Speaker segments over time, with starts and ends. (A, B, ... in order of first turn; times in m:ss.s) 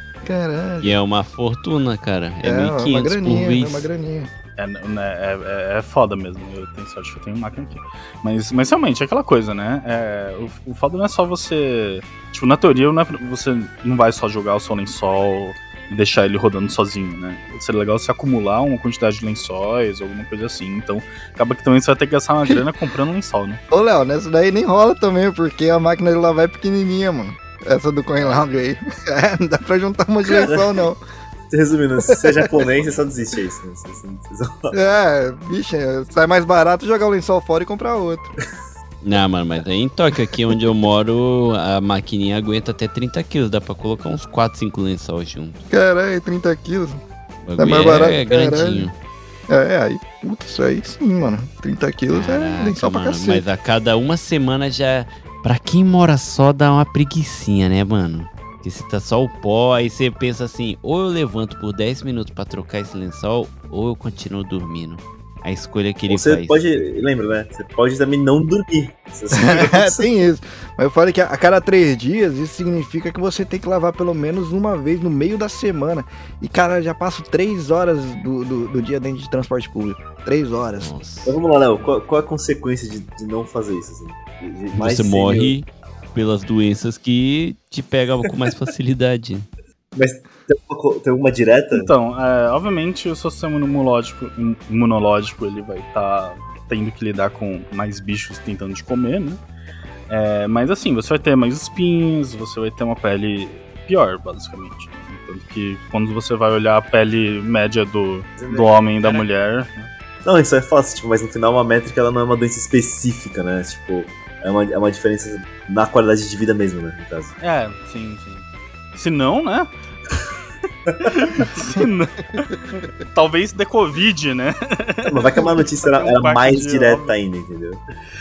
0:00.2-0:01.0 A
0:00.8-0:03.9 B
0:02.4-0:04.3 A
0:04.6-0:23.6 C
0:23.7-0:31.0 A
0:30.3-0:30.9 D
0:31.5-0:34.8 D
0:32.1-0:32.6 A
0:34.7-0:38.3 A
0:39.0-0:45.6 B
0:45.7-0:47.0 A
0:47.4-0:48.9 B
0:47.6-0:48.9 A
0:49.5-0:53.4 A
0:52.1-1:06.6 B
1:06.1-1:10.1 D
1:09.3-1:20.9 A
1:20.8-1:21.4 B
1:21.2-1:25.5 D
1:24.7-1:29.5 B
1:29.9-1:31.9 D
1:31.7-1:39.4 C
1:40.1-1:49.9 C
1:48.4-1:49.2 D
1:50.2-1:57.4 D
1:57.4-1:59.7 C
2:01.0-2:07.1 C
2:05.0-2:07.8 D